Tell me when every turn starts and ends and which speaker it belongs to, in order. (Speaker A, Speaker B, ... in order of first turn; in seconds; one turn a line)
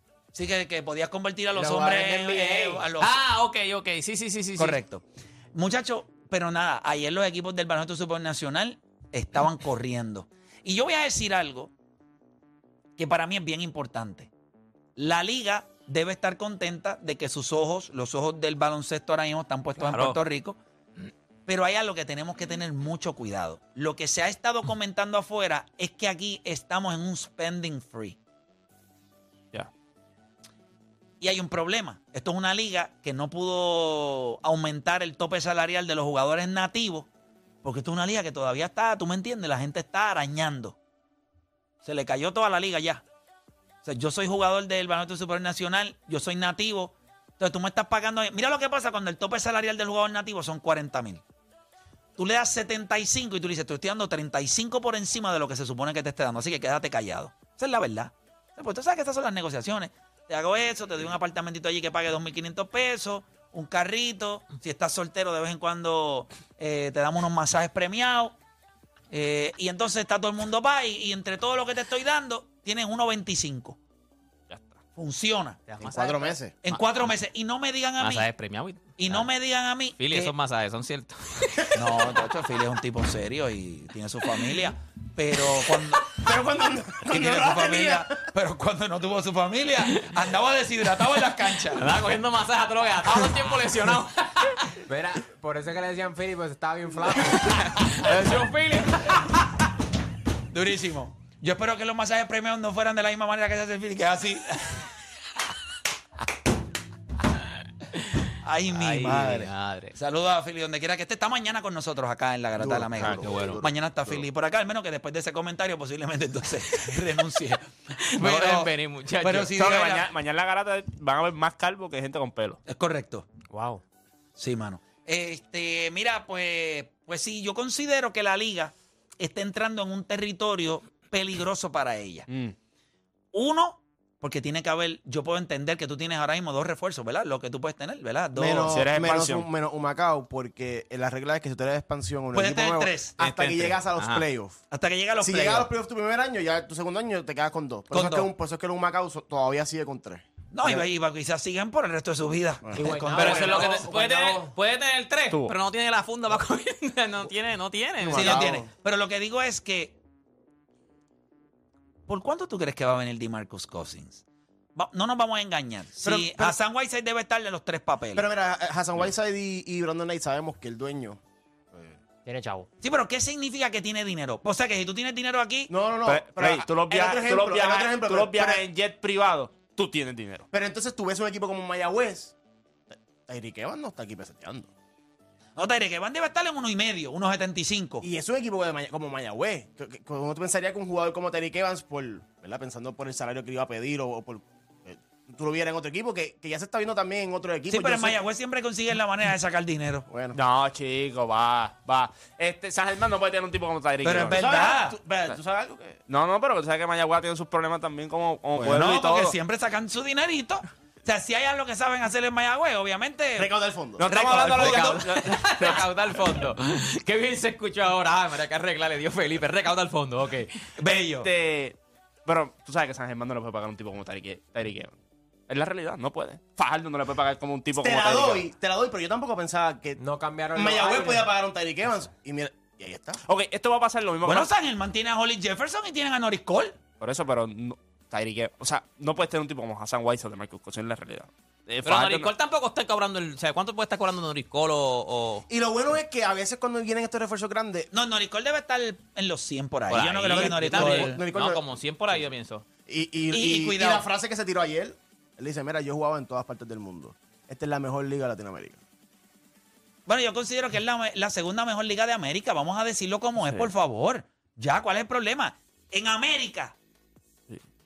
Speaker A: 0.3-3.2
Speaker B: 1.6-2.9
Speaker C: 3.0-4.8
Speaker A: 4.6-11.7
Speaker A: 13.0-14.3
Speaker A: 15.0-20.6
Speaker C: 19.8-20.2
Speaker A: 21.5-28.2
Speaker A: 31.2-37.1
Speaker A: 37.6-40.8
Speaker A: 41.8-43.0
Speaker A: 43.8-51.2
Speaker A: 52.2-68.4
Speaker A: 69.1-73.8
Speaker D: 74.5-74.8
Speaker A: 75.0-75.6
Speaker C: 75.7-77.1
Speaker E: 75.8-76.6
Speaker A: 76.6-78.3
Speaker C: 78.0-79.3
Speaker A: 79.0-80.3
Speaker C: 80.0-81.8
Speaker A: 81.7-86.1
Speaker E: 86.1-88.3
Speaker A: 87.1-91.9
Speaker C: 89.9-90.2
Speaker C: 91.7-94.7
Speaker B: 94.8-98.1
Speaker C: 97.4-99.4
Speaker A: 100.5-104.9
Speaker C: 107.9-110.0
Speaker A: 108.4-120.1
Speaker E: 112.6-114.2
Speaker C: 113.0-113.6
Speaker C: 116.7-117.0
Speaker C: 118.0-119.5
Speaker D: 119.5-122.6
Speaker A: 122.7-123.3
Speaker B: 123.5-123.8
Speaker A: 124.4-132.3
Speaker D: 132.3-132.6
Speaker A: 133.3-138.8
Speaker E: 138.3-144.6
Speaker D: 138.7-139.5
Speaker A: 142.3-143.2
Speaker C: 143.2-144.2
Speaker A: 144.7-145.7
Speaker E: 145.2-150.9
Speaker A: 147.9-148.3
Speaker A: 150.5-153.8
Speaker B: 152.8-154.5
Speaker C: 153.1-158.5
Speaker E: 158.0-158.7
Speaker A: 158.1-160.0
Speaker A: 162.1-164.2
Speaker A: 164.8-168.3
Speaker E: 166.0-166.6
Speaker E: 168.2-171.2
Speaker E: 171.7-172.0
Speaker B: 172.2-172.7
Speaker A: 172.8-175.7
Speaker E: 175.7-178.6
Speaker D: 176.1-180.5
Speaker E: 180.5-182.3
Speaker E: 183.3-184.7
Speaker A: 185.6-188.1
Speaker E: 188.0-198.2
Speaker A: 197.7-200.1
Speaker E: 200.1-200.4
Speaker D: 200.3-204.4
Speaker A: 204.0-205.0
Speaker E: 204.3-206.0
Speaker D: 206.1-209.3
Speaker A: 208.7-213.5
Speaker E: 213.4-214.1
Speaker D: 214.0-215.9
Speaker A: 214.1-215.1
Speaker C: 214.5-220.7
Speaker A: 220.8-221.3
Speaker D: 221.0-224.9
Speaker D: 225.5-228.4
Speaker E: 227.8-230.0
Speaker B: 230.0-231.3
Speaker E: 230.6-233.2
Speaker D: 233.2-234.5
Speaker A: 234.2-236.8
Speaker D: 236.9-242.3
Speaker C: 241.8-245.5
Speaker E: 245.5-247.9
Speaker A: 247.9-251.2
Speaker C: 249.9-252.6
Speaker E: 250.3-251.6
Speaker E: 252.9-258.8
Speaker A: 253.3-254.1
Speaker A: 260.1-266.8